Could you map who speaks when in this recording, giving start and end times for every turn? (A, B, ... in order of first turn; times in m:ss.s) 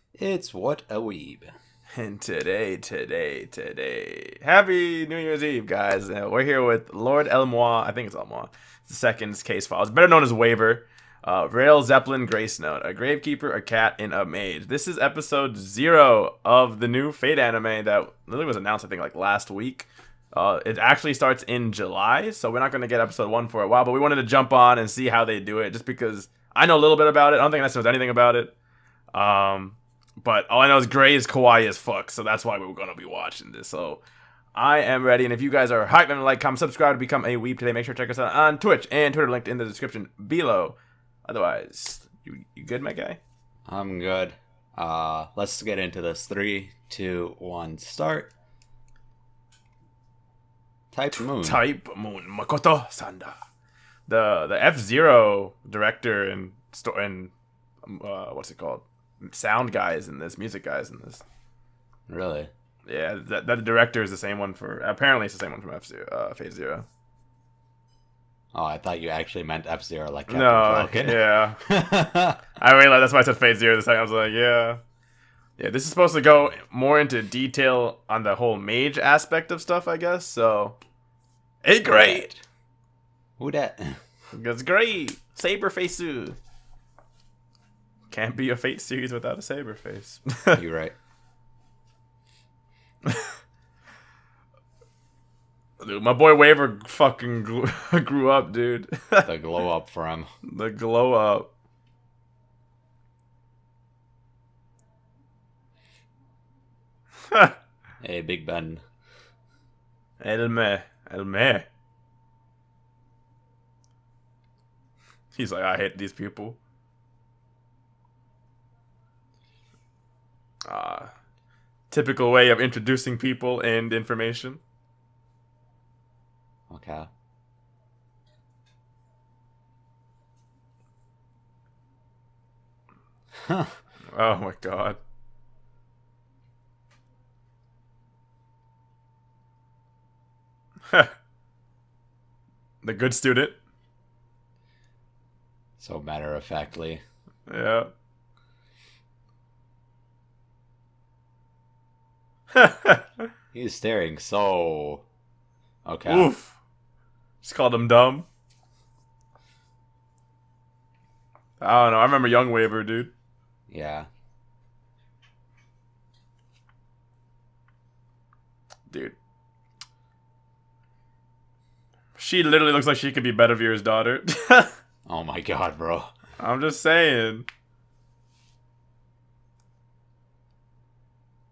0:00.2-0:01.5 A
0:01.9-0:28.5 B
0:29.1-0:34.0 B
0:34.5-0:43.2 B
0:43.7-0:48.3 A
0:50.9-0:51.6 A
0:51.1-0:53.4 B
0:54.1-0:57.3 B
0:57.8-1:01.2 B
1:02.1-1:02.5 A
1:02.9-1:06.8 B
1:08.5-1:12.4 A
1:10.3-1:11.6 B
1:12.6-1:14.8 B
1:15.6-1:20.8 B
1:21.6-1:22.3 B
1:21.8-1:22.4 A
1:23.4-1:24.0 A
1:24.3-1:26.4 B
1:28.1-1:30.6 B
1:30.5-1:30.9 A
1:35.8-1:39.3 B
1:39.2-1:40.3 A
1:40.4-1:41.5 B
1:47.3-1:47.5 B
1:48.0-1:48.8 A
1:50.2-1:51.7 B
1:55.3-1:56.6 B
2:00.6-2:01.1 B
2:01.9-2:04.6 B
2:06.7-2:07.1 A
2:13.3-2:13.8 A
2:14.1-2:15.0 B
2:22.8-2:23.6 B
2:25.8-2:27.0 A
2:27.5-2:27.9 B
2:32.5-2:33.3 B
2:33.5-2:35.0 A
2:35.8-2:36.3 A
2:36.0-2:36.6 B
2:37.4-2:38.2 B
2:41.6-2:43.1 B
2:43.7-2:44.1 A
2:48.9-2:49.2 B
2:52.2-2:54.7 B
2:55.0-2:56.1 A
2:56.4-2:57.5 B